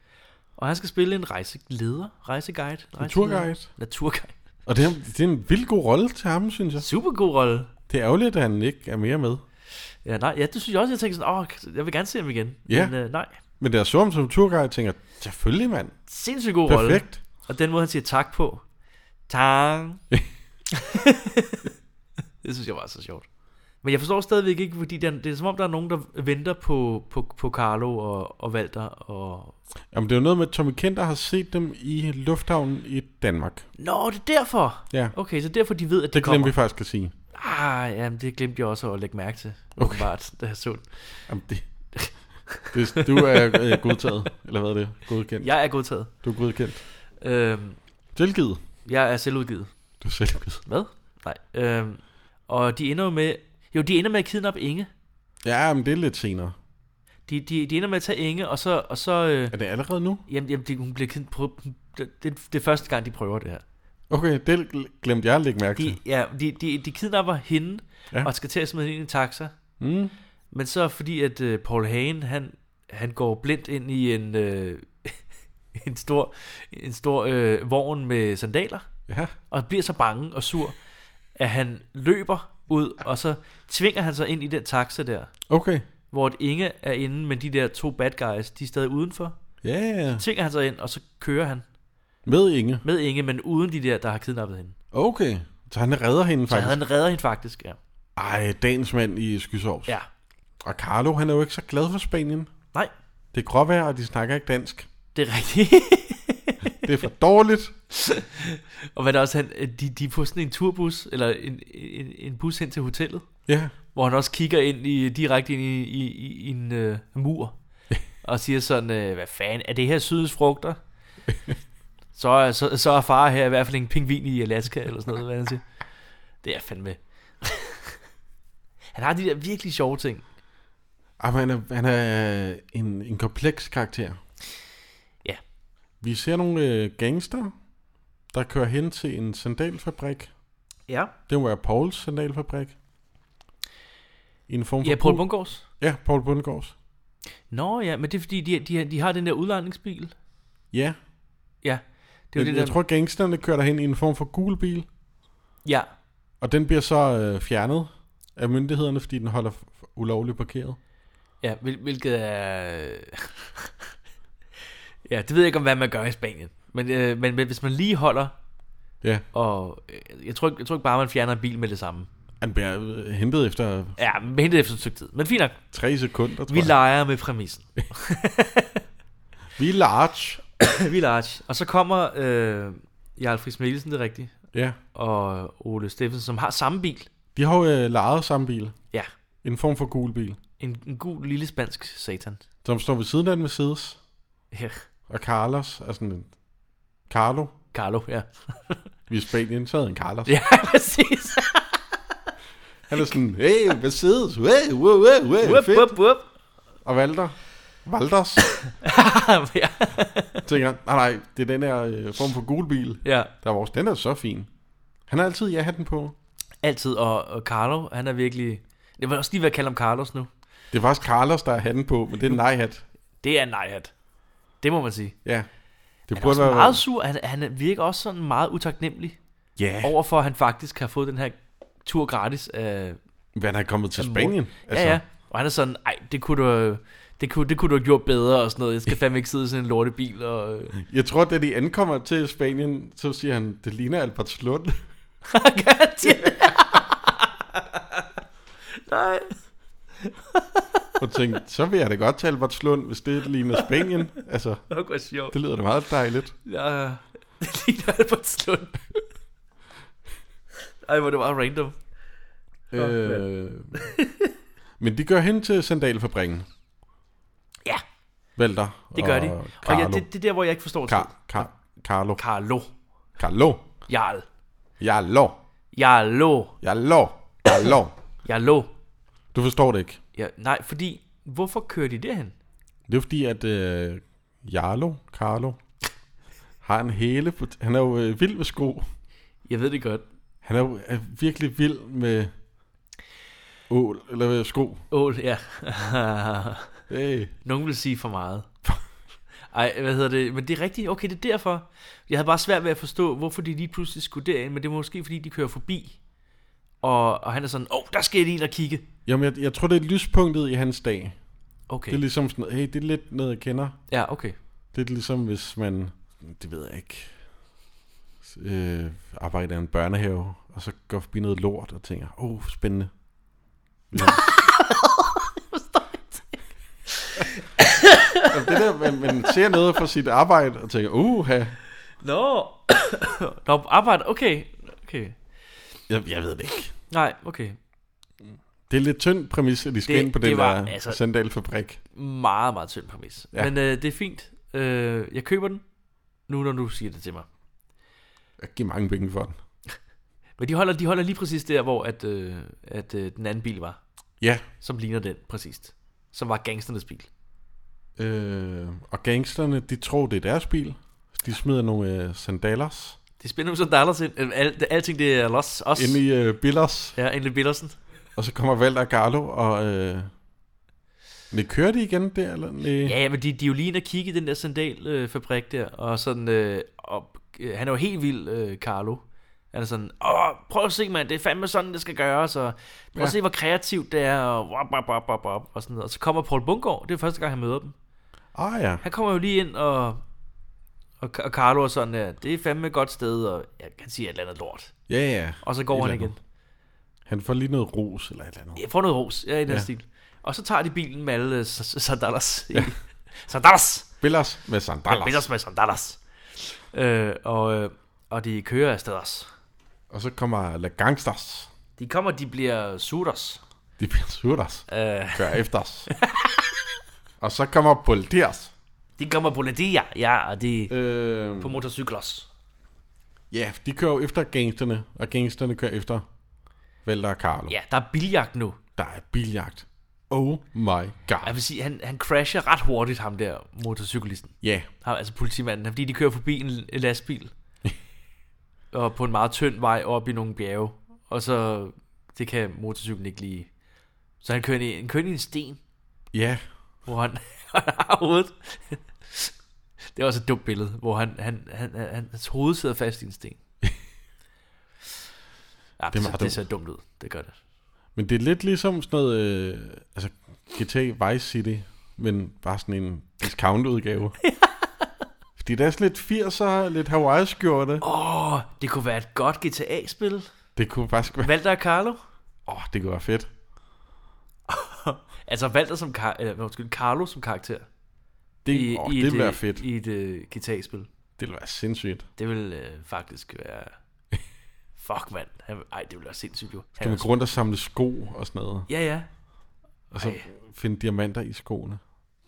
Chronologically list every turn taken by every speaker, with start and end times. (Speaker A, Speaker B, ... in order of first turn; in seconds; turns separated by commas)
Speaker A: 0.6-4.3, Speaker B: 3.0-3.7, Speaker B: 4.7-6.9, Speaker A: 6.8-7.7, Speaker B: 7.9-9.4, Speaker A: 10.0-13.3, Speaker B: 12.7-12.9, Speaker B: 13.6-16.0, Speaker A: 16.1-18.6, Speaker B: 16.6-17.2, Speaker A: 19.3-20.0, Speaker A: 20.7-21.7, Speaker A: 22.4-23.2, Speaker A: 23.8-29.6, Speaker B: 29.9-33.6, Speaker A: 33.8-36.5, Speaker B: 36.1-37.1, Speaker A: 37.3-40.9, Speaker B: 39.8-40.1, Speaker B: 41.3-41.6, Speaker A: 42.0-44.1, Speaker B: 42.7-45.5, Speaker A: 45.4-46.1, Speaker B: 46.2-46.8, Speaker A: 47.2-47.8, Speaker B: 48.1-48.6, Speaker A: 48.8-49.7, Speaker B: 50.0-50.6, Speaker A: 50.6-54.9, Speaker B: 55.4-56.5, Speaker A: 57.3-59.5, Speaker B: 59.5-60.2, Speaker A: 60.3-63.6, Speaker B: 64.1-66.0, Speaker A: 65.8-69.5, Speaker B: 69.8-70.1, Speaker A: 70.5-75.2, Speaker A: 75.7-78.9, Speaker B: 79.1-79.3, Speaker A: 79.5-80.8, Speaker A: 81.4-85.3, Speaker B: 85.5-85.8, Speaker A: 86.1-89.3, Speaker B: 89.6-90.2, Speaker A: 90.2-91.6, Speaker B: 92.2-92.8, Speaker A: 92.8-94.7, Speaker B: 94.9-96.8, Speaker A: 96.5-97.8, Speaker B: 98.2-100.0, Speaker B: 100.6-102.5, Speaker B: 103.3-104.9, Speaker A: 105.1-106.7, Speaker B: 106.8-107.7, Speaker A: 107.9-113.2, Speaker B: 113.5-113.7, Speaker A: 113.9-117.5, Speaker A: 118.2-120.8, Speaker A: 122.1-125.6, Speaker A: 126.4-128.0, Speaker A: 128.9-130.2, Speaker B: 131.2-134.2, Speaker B: 136.0-137.5, Speaker B: 138.3-140.3, Speaker A: 140.9-141.1, Speaker B: 141.3-142.8, Speaker B: 144.5-146.7, Speaker A: 144.8-145.6, Speaker A: 147.5-150.1, Speaker B: 150.7-151.0, Speaker A: 151.6-152.8, Speaker B: 152.3-154.9, Speaker B: 156.4-160.8, Speaker A: 161.4-163.7, Speaker A: 165.1-168.3, Speaker A: 169.3-172.1, Speaker B: 172.4-173.9, Speaker A: 174.0-175.6, Speaker B: 175.7-176.7, Speaker A: 176.5-178.8, Speaker B: 179.6-180.4, Speaker A: 180.6-184.3, Speaker B: 184.5-184.8, Speaker A: 184.9-187.1, Speaker B: 187.3-188.8, Speaker B: 189.4-190.4, Speaker A: 190.6-192.4, Speaker B: 192.6-194.0, Speaker A: 194.5-194.8, Speaker B: 195.1-196.3, Speaker B: 197.1-197.5, Speaker A: 197.7-198.8, Speaker B: 199.1-200.3, Speaker A: 200.2-201.8, Speaker B: 202.9-206.0, Speaker A: 205.4-206.2, Speaker B: 206.8-208.5, Speaker A: 208.7-210.4, Speaker B: 210.4-214.5, Speaker A: 213.0-213.3, Speaker B: 215.1-216.1, Speaker A: 216.6-220.3, Speaker B: 220.7-222.8, Speaker A: 223.2-223.9, Speaker A: 224.6-225.2, Speaker B: 226.1-226.8, Speaker A: 226.1-229.2, Speaker B: 229.6-229.9, Speaker A: 229.8-233.0, Speaker B: 233.3-235.0, Speaker A: 234.0-240.7, Speaker B: 240.7-244.8, Speaker A: 245.3-248.1, Speaker B: 246.1-246.3, Speaker A: 248.8-249.4, Speaker A: 250.0-250.8, Speaker B: 251.0-254.6, Speaker A: 253.5-253.9, Speaker A: 254.7-255.3, Speaker B: 255.3-256.3, Speaker A: 256.4-259.0, Speaker A: 260.8-261.8, Speaker B: 262.7-263.8, Speaker A: 262.8-264.3, Speaker B: 264.8-266.5, Speaker B: 268.4-270.1, Speaker A: 268.9-271.5, Speaker B: 270.9-272.2, Speaker A: 272.2-272.7, Speaker B: 273.2-273.7, Speaker A: 273.9-274.2, Speaker B: 274.8-275.4, Speaker A: 275.7-276.6, Speaker B: 276.6-277.9, Speaker A: 278.2-278.7, Speaker B: 279.3-280.0, Speaker A: 280.1-282.3, Speaker B: 282.9-285.6, Speaker B: 286.6-288.9, Speaker A: 289.4-290.0, Speaker B: 290.4-292.3, Speaker B: 293.7-294.8, Speaker A: 294.9-296.7, Speaker B: 296.9-297.3, Speaker A: 297.4-298.5, Speaker A: 299.5-306.0, Speaker A: 306.8-308.8, Speaker B: 309.1-311.2, Speaker A: 311.7-312.0, Speaker B: 311.9-313.8, Speaker A: 313.9-314.4, Speaker B: 314.7-317.1, Speaker B: 318.2-322.9, Speaker B: 323.9-324.2, Speaker A: 324.0-328.6, Speaker B: 328.2-331.6, Speaker A: 332.0-335.1, Speaker B: 335.9-336.7, Speaker A: 336.9-337.6, Speaker B: 338.7-341.8, Speaker A: 339.9-341.0, Speaker A: 341.9-345.6, Speaker A: 346.3-347.3, Speaker B: 348.4-349.4, Speaker A: 350.4-353.8, Speaker A: 354.6-357.1, Speaker B: 358.0-363.0, Speaker A: 363.2-366.0, Speaker B: 365.7-367.0, Speaker A: 366.9-367.8, Speaker B: 368.1-370.1, Speaker B: 371.3-372.9, Speaker A: 372.8-387.7, Speaker B: 388.3-388.8, Speaker A: 388.8-390.0, Speaker A: 391.0-394.7, Speaker B: 394.9-396.1, Speaker A: 395.4-396.2, Speaker B: 397.1-398.6, Speaker A: 398.6-403.9, Speaker B: 404.0-405.2, Speaker A: 404.9-409.3, Speaker B: 409.9-411.5, Speaker A: 411.8-413.4, Speaker B: 413.8-415.9, Speaker A: 414.7-415.4, Speaker A: 416.0-416.4, Speaker B: 417.2-418.5, Speaker A: 419.0-420.7, Speaker B: 420.7-421.6, Speaker A: 421.4-422.3, Speaker B: 423.3-426.1, Speaker B: 426.8-427.5, Speaker A: 427.5-428.6, Speaker B: 428.8-431.4, Speaker A: 431.2-437.3, Speaker B: 434.4-434.7, Speaker A: 438.7-443.5, Speaker A: 444.2-445.6, Speaker B: 446.1-446.4, Speaker A: 446.9-449.3, Speaker A: 449.9-453.4, Speaker A: 455.8-457.4, Speaker B: 455.9-456.4, Speaker B: 457.9-464.1, Speaker A: 464.2-464.9, Speaker B: 465.4-467.8, Speaker A: 467.8-470.3, Speaker B: 470.6-471.3, Speaker A: 471.2-472.0, Speaker B: 472.5-473.3, Speaker A: 474.5-477.7, Speaker B: 478.4-479.6, Speaker A: 478.5-480.9, Speaker B: 481.2-482.1, Speaker A: 482.2-483.7, Speaker A: 484.8-487.1, Speaker B: 486.8-488.7, Speaker A: 488.7-489.1, Speaker B: 489.9-491.8, Speaker A: 489.9-490.3